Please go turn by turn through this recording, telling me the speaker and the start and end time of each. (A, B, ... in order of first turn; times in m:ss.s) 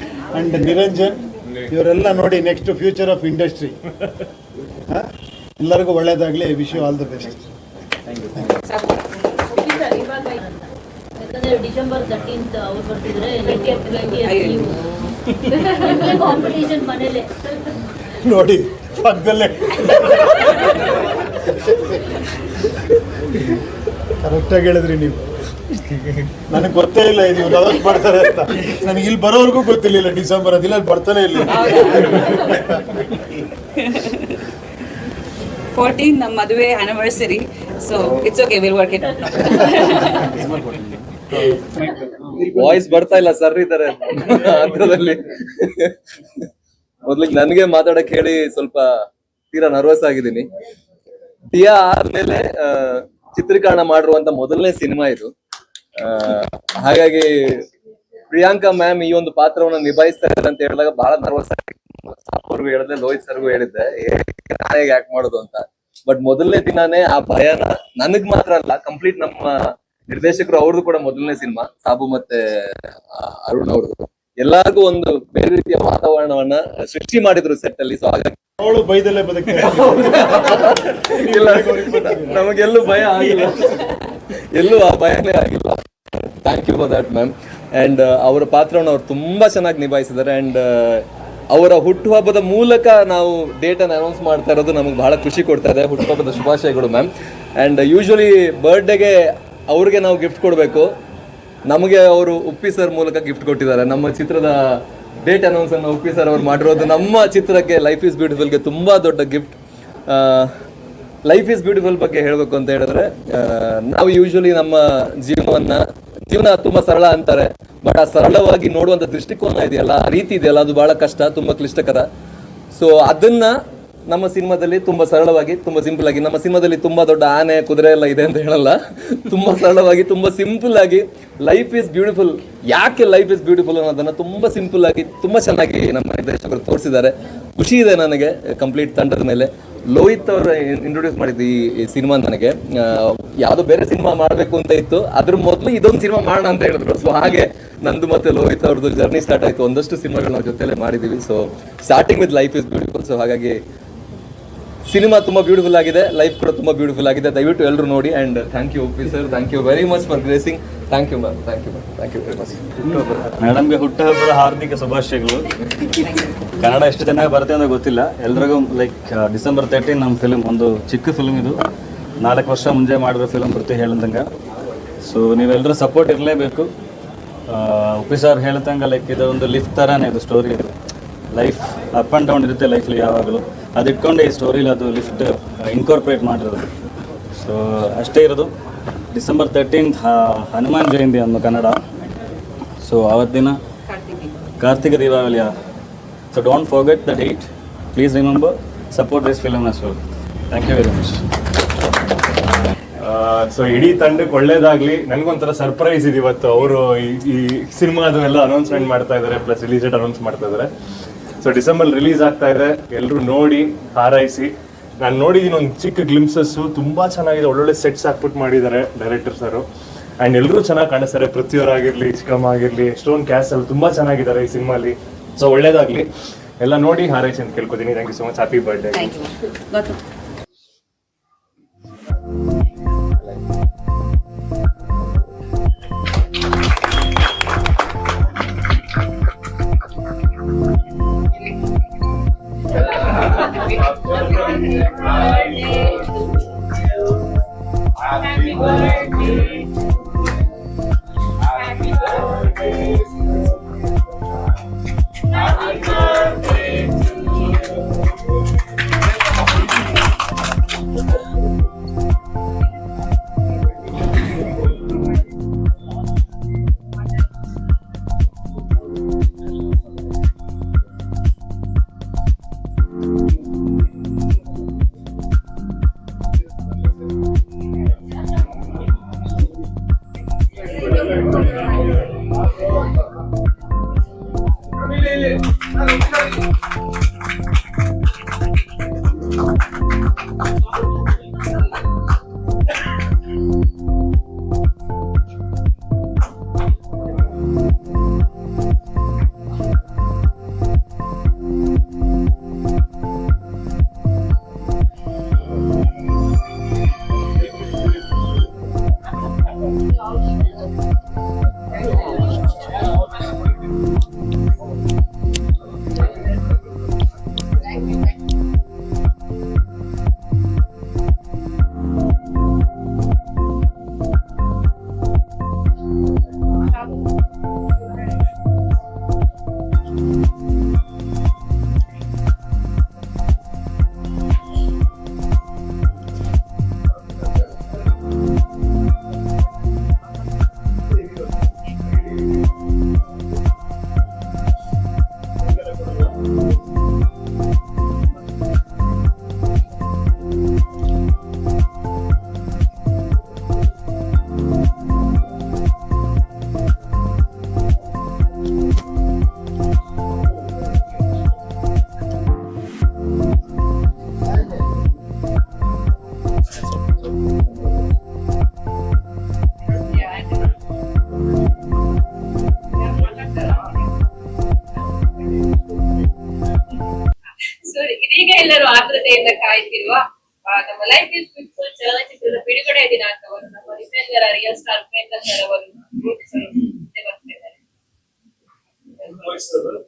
0:00.3-0:03.8 A
0:04.9-0:07.5 A
0:08.4-0:09.9 B
0:09.7-0:14.6 C
0:14.2-0:15.1 B
0:15.6-0:17.6 C
0:18.2-0:22.2 A
0:24.2-0:25.2 A
0:26.3-0:33.2 A
0:31.5-0:32.6 B
0:33.8-0:34.5 B
0:35.7-0:40.4 B
0:40.3-0:41.1 D
0:42.3-0:46.4 E
0:47.0-0:48.9 E
0:49.5-0:50.5 E
0:51.5-0:55.3 E
0:56.0-0:57.7 E
0:58.3-1:09.6 E
1:10.1-1:18.4 E
1:18.6-1:22.5 A
1:19.6-1:40.9 E
1:41.7-1:49.6 E
1:50.1-1:50.5 E
1:51.2-2:02.1 E
2:02.7-2:03.6 E
2:04.1-2:33.6 E
2:34.9-2:42.8 E
2:42.8-2:51.7 D
2:52.2-2:54.3 D
2:55.0-2:56.7 D
2:57.5-3:00.7 D
3:01.3-3:06.7 D
3:07.4-3:08.5 D
3:09.1-3:11.8 D
3:12.8-3:13.6 D
3:13.9-3:14.3 B
3:14.6-3:15.5 D
3:16.3-3:20.0 D
3:20.5-3:21.2 D
3:23.0-3:30.7 F
3:31.4-3:39.7 F
3:40.2-3:46.1 F
3:46.6-3:49.1 F
3:48.9-3:50.0 B
4:02.9-4:06.1 G
4:08.1-4:09.6 G
4:11.6-4:12.5 G
4:15.7-4:16.0 G
6:09.9-6:10.5 G
6:12.9-6:13.8 G
6:17.6-6:27.6 G
6:29.1-6:29.6 G